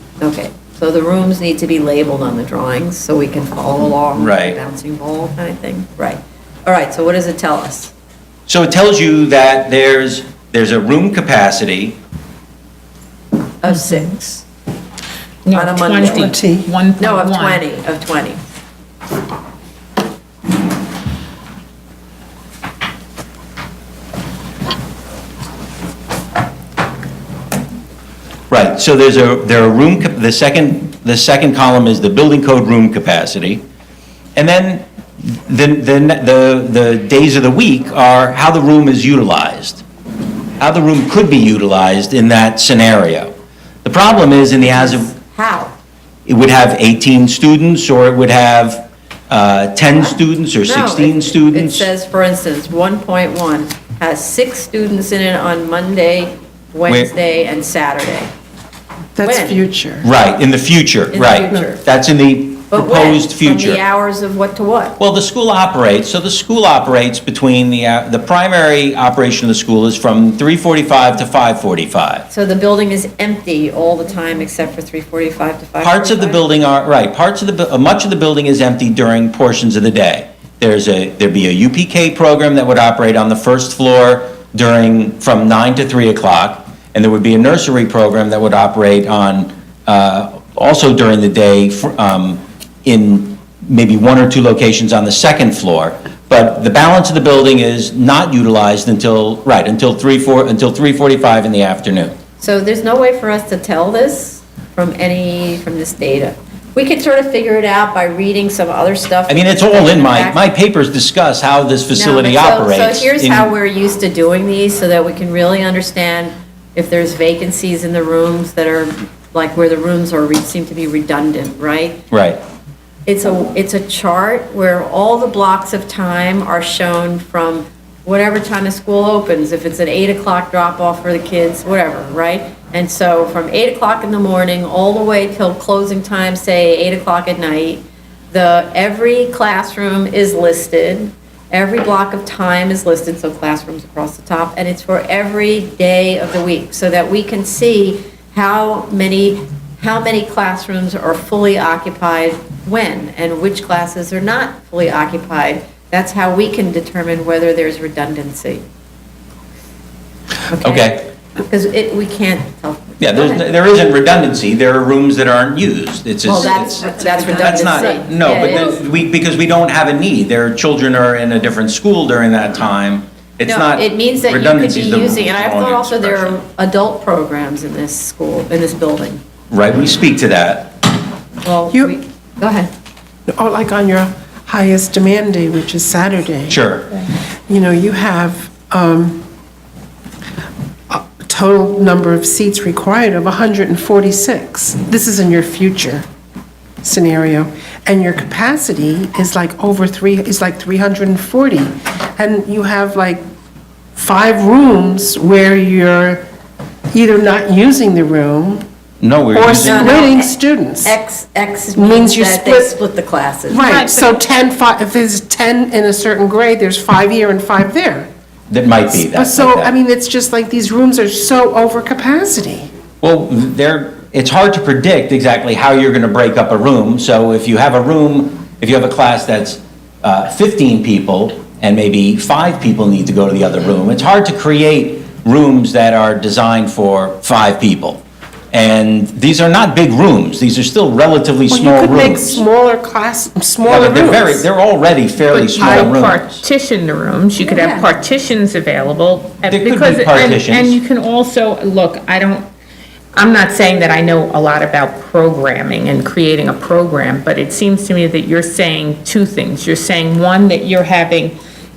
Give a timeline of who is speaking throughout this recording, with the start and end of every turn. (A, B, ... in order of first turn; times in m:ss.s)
0:00.2-0:07.9 A
0:04.2-0:04.6 B
0:08.5-0:12.0 B
0:13.6-0:14.4 A
0:15.5-0:17.6 C
0:15.5-0:16.4 A
0:16.1-0:16.7 D
0:17.0-0:18.4 A
0:28.5-0:33.6 B
0:34.4-0:39.8 B
0:40.6-0:43.3 B
0:43.8-0:45.1 B
0:44.7-0:45.7 A
0:46.3-0:51.9 B
0:50.0-0:58.3 A
0:56.9-0:57.1 B
0:59.2-1:00.1 D
0:59.2-0:59.6 A
1:00.0-1:03.8 B
1:01.1-1:01.8 A
1:02.7-1:05.0 A
1:05.0-1:12.3 B
1:12.3-1:16.4 A
1:15.8-1:42.1 B
1:42.4-1:50.4 A
1:49.3-1:53.5 B
1:51.9-2:02.0 A
2:02.1-2:02.4 B
2:03.1-2:38.6 A
2:40.5-2:40.9 A
2:40.6-2:41.1 B
2:41.5-2:43.5 A
2:43.0-2:56.4 B
2:46.2-2:48.8 A
2:53.5-2:59.2 A
2:59.5-3:00.7 B
3:01.4-3:02.7 A
3:03.3-3:06.6 D
3:06.5-3:07.0 B
3:07.5-3:09.2 D
3:10.9-3:16.0 D
3:16.8-3:23.2 D
3:24.0-3:26.2 D
3:26.9-3:28.6 D
3:29.0-3:30.0 B
3:29.3-3:31.0 D
3:29.6-3:30.3 A
3:30.8-3:33.7 A
3:31.8-3:32.7 D
3:33.5-3:38.1 D
3:33.7-3:34.2 C
3:38.5-3:39.7 B
3:38.9-3:42.7 D
3:43.0-3:58.0 B
3:58.5-4:02.4 B
4:01.5-4:04.5 D
4:03.7-4:06.4 B
4:05.3-4:12.5 C
4:05.6-4:05.9 D
4:07.5-4:07.9 D
4:09.5-4:10.8 B
4:13.2-4:21.4 C